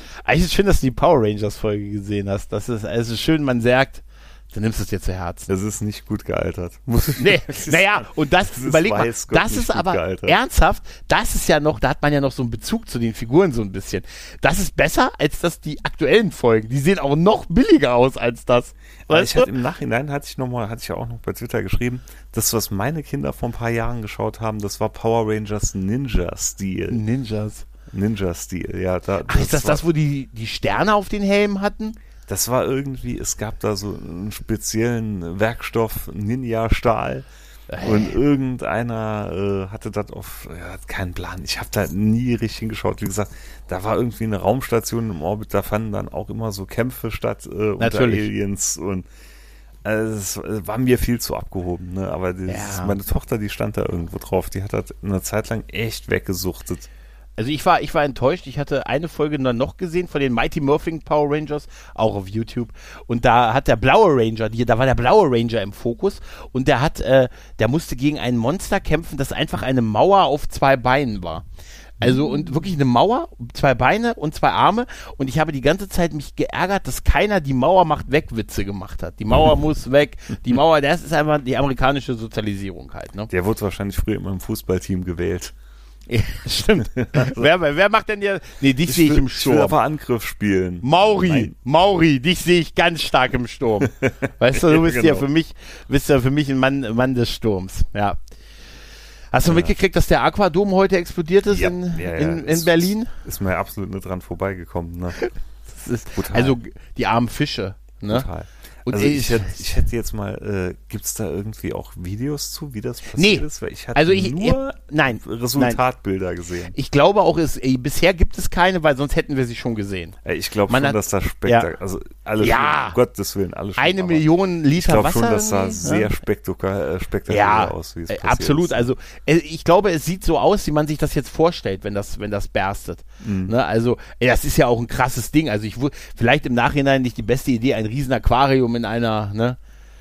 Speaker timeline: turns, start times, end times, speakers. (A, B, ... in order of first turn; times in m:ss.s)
0:00.2-0:05.5 A
0:05.5-0:10.4 B
0:07.2-0:19.5 A
0:19.1-0:27.0 B
0:26.9-0:27.7 A
0:27.9-0:29.8 B
0:29.3-0:32.0 A
0:32.3-0:37.3 B
0:37.7-0:38.2 A
0:37.8-0:49.1 B
0:47.8-0:48.3 A
0:49.8-0:56.9 B
0:52.5-0:53.0 A
0:57.4-1:11.4 A
1:12.0-1:23.3 A
1:12.0-1:12.3 B
1:23.3-1:25.5 B
1:26.1-1:29.8 A
1:26.9-1:27.5 B
1:28.9-1:31.5 B
1:30.8-1:38.2 A
1:33.8-1:35.2 B
1:39.3-1:43.1 A
1:39.4-1:39.8 B
1:41.5-1:45.2 B
1:45.2-1:48.3 A
1:46.2-1:46.6 B
1:48.1-1:56.8 B
1:48.9-1:49.7 A
1:53.1-1:55.8 A
1:56.7-2:00.2 A
2:00.2-2:08.9 B
2:00.7-2:01.7 A
2:02.4-2:03.0 A
2:03.8-2:06.1 A
2:07.3-2:19.6 A
2:13.2-2:13.6 B